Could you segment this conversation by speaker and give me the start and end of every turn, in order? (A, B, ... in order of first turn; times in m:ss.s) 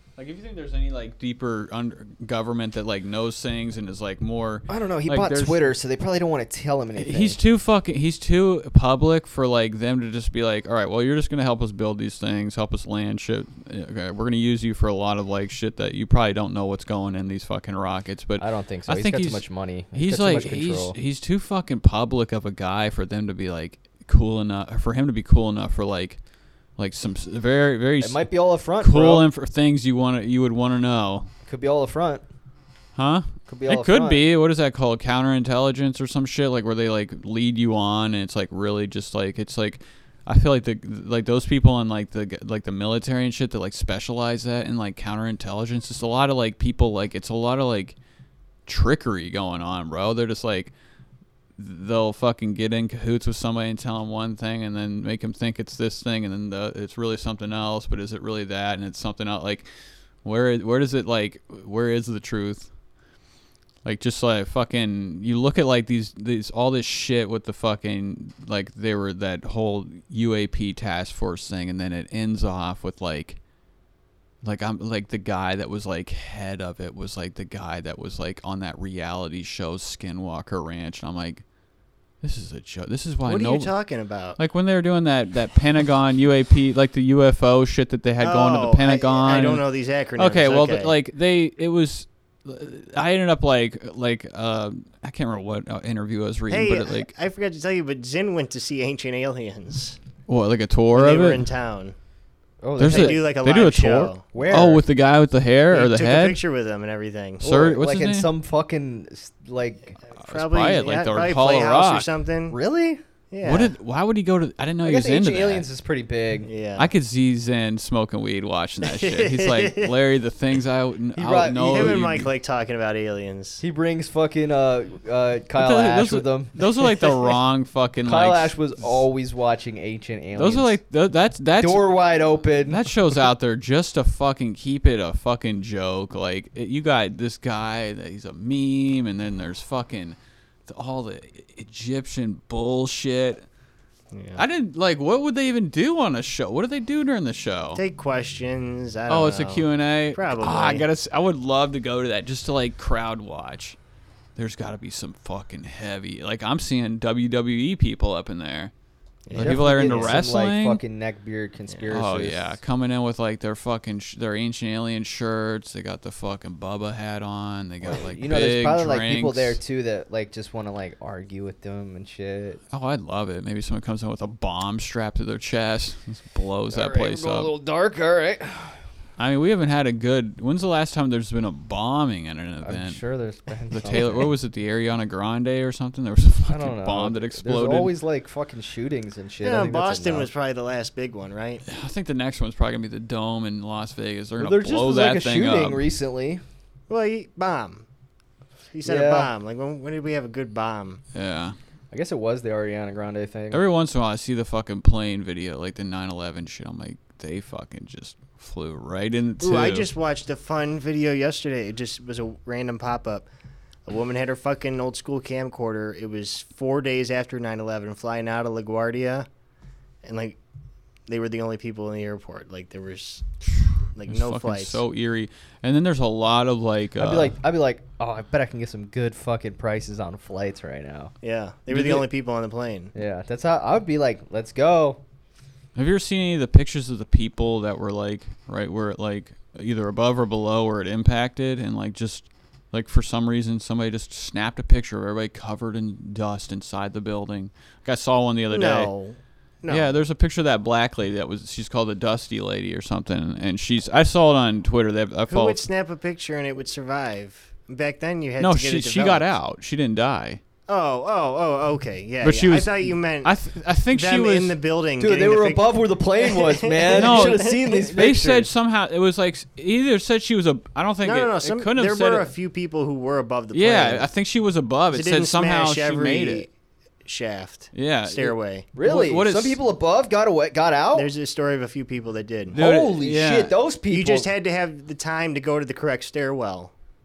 0:00.2-0:05.7 A
0:04.7-0:07.4 B
0:07.0-0:26.2 A
0:18.4-0:21.0 B
0:26.8-0:28.3 A
0:28.0-0:29.3 B
0:28.8-0:31.3 A
0:31.5-0:32.2 B
0:33.0-0:48.0 A
0:33.5-0:34.2 B
0:48.7-0:50.7 A
0:51.6-0:59.7 A
1:00.2-1:02.7 A
1:03.8-1:13.4 A
1:14.4-1:21.4 A
1:22.2-1:23.7 A
1:23.2-1:24.4 C
1:24.4-1:29.6 A
1:28.2-1:30.9 C
1:30.2-1:37.1 A
1:36.5-1:40.0 C
1:40.3-1:41.4 A
1:40.9-1:42.0 C
1:42.6-1:43.2 B
1:42.8-1:46.4 A
1:42.8-1:44.7 C
1:44.3-1:44.8 B
1:45.7-1:47.4 C
1:47.4-1:48.3 A
1:47.4-1:50.0 B
1:50.2-1:52.1 A
1:50.2-1:52.6 C
1:52.5-1:53.0 B
1:53.3-1:53.7 C
1:53.4-1:55.7 A
1:54.8-1:56.5 B
1:56.4-1:56.9 C
1:56.8-2:02.3 A
1:58.8-2:00.0 C
2:01.2-2:02.0 B
2:01.7-2:03.6 C
2:03.6-2:07.2 B
2:05.6-2:09.0 A
2:08.0-2:10.8 B
2:10.4-2:11.9 A
2:11.6-2:12.9 B
2:12.6-2:23.4 A
2:24.1-2:24.4 C
2:24.4-2:27.8 A
2:27.8-2:30.9 C
2:29.1-2:33.8 A
2:34.4-2:38.7 A
2:39.3-2:40.2 C
2:39.3-2:40.8 A
2:39.4-2:42.6 B
2:41.9-2:49.6 A
2:47.8-2:52.6 B
2:52.7-2:57.5 A
2:56.7-2:58.8 B
2:59.2-3:03.0 A
3:02.6-3:04.3 B
3:03.7-3:07.9 A
3:06.5-3:10.3 B
3:09.4-3:11.6 C
3:11.7-3:15.8 A
3:14.4-3:16.4 B
3:16.9-3:17.9 C
3:18.7-3:21.0 C
3:18.8-3:19.3 B
3:21.1-3:21.6 A
3:21.9-3:23.6 B
3:23.5-3:29.9 A
3:29.4-3:33.3 C
3:33.9-3:39.3 C
3:40.0-3:40.4 C
3:41.1-3:43.2 C
3:43.6-3:47.4 A
3:44.0-3:44.8 C
3:47.0-3:51.1 B
3:51.2-3:52.9 C
3:52.9-3:55.0 B
3:55.8-4:08.9 A
4:08.5-4:09.9 C
4:09.7-4:15.6 A
4:15.3-4:19.3 C
4:18.4-4:20.4 A
4:20.7-4:23.3 C
4:22.2-4:24.5 A
4:23.9-4:27.8 C
4:25.0-4:28.5 B
4:26.9-4:32.3 A
4:31.0-4:34.1 C
4:33.5-4:36.5 A
4:34.9-4:36.5 C
4:37.0-4:38.7 C
4:37.7-4:39.6 A
4:38.8-4:41.1 B
4:41.0-4:42.6 C
4:42.5-4:43.5 A
4:42.5-4:44.3 B
4:43.9-4:46.7 C